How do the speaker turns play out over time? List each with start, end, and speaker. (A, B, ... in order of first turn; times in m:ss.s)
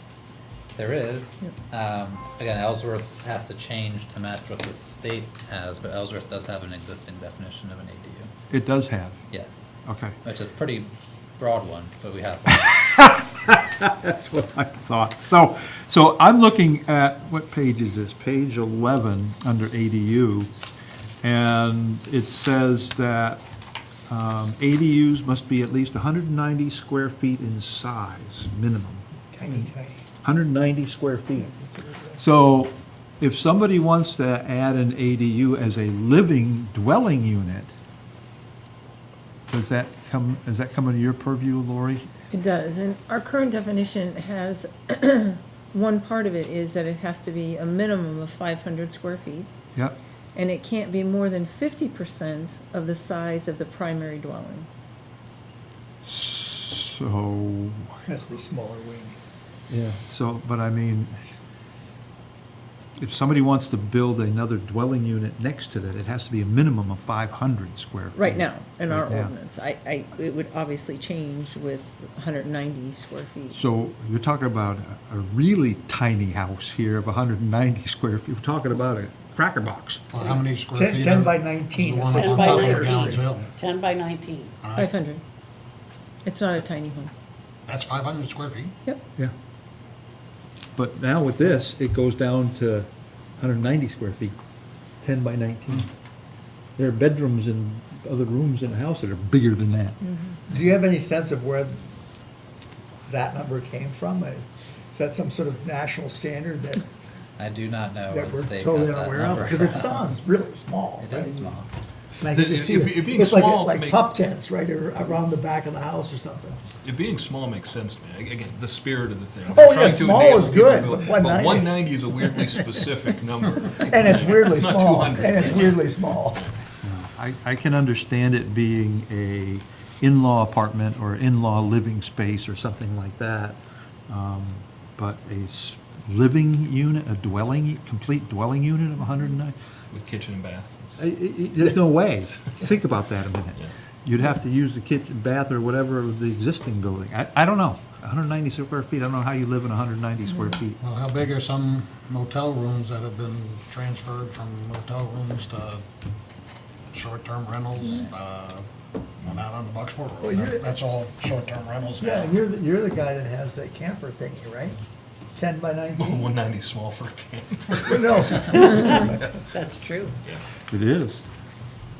0:00.8-0:08.3 A
0:08.5-0:09.2 B
0:09.3-0:09.7 A
0:09.8-0:10.2 B
0:10.2-0:12.6 A
0:12.5-0:20.5 B
0:21.2-0:23.4 B
0:24.1-0:29.7 B
0:29.3-0:30.0 C
0:30.2-0:31.5 B
0:31.4-0:32.2 C
0:32.2-0:37.7 B
0:39.5-0:42.1 B
0:42.3-0:49.5 D
0:50.3-0:54.7 D
0:56.0-0:58.0 B
0:58.1-0:59.2 C
0:59.7-1:01.1 B
1:03.0-1:09.3 B
1:08.1-1:13.6 D
1:13.5-1:20.0 B
1:20.1-1:23.5 E
1:20.7-1:23.2 C
1:22.1-1:24.5 F
1:24.6-1:24.9 E
1:24.8-1:25.2 D
1:26.2-1:27.1 D
1:27.7-1:28.7 E
1:30.8-1:32.9 B
1:33.4-1:34.4 B
1:35.0-1:35.9 B
1:36.8-1:40.0 B
1:40.1-1:40.3 D
1:40.5-1:41.8 C
1:43.1-1:46.8 C
1:47.4-1:50.2 A
1:48.1-1:51.5 C
1:51.0-1:51.7 A
1:52.2-1:56.6 C
1:52.3-1:54.0 G
1:56.8-2:06.5 G
1:59.4-2:01.8 C
2:03.8-2:06.4 C
2:06.8-2:13.6 B
2:14.1-2:19.5 B
2:19.9-2:21.0 G
2:21.0-2:30.8 B
2:30.8-2:35.8 E
2:36.9-2:38.7 E
2:39.2-2:42.3 E
2:40.2-2:40.7 C
2:42.0-2:44.8 C
2:45.4-2:46.3 C
2:46.0-2:48.5 G
2:47.8-2:49.2 C
2:48.5-2:50.2 F
2:50.7-2:51.2 B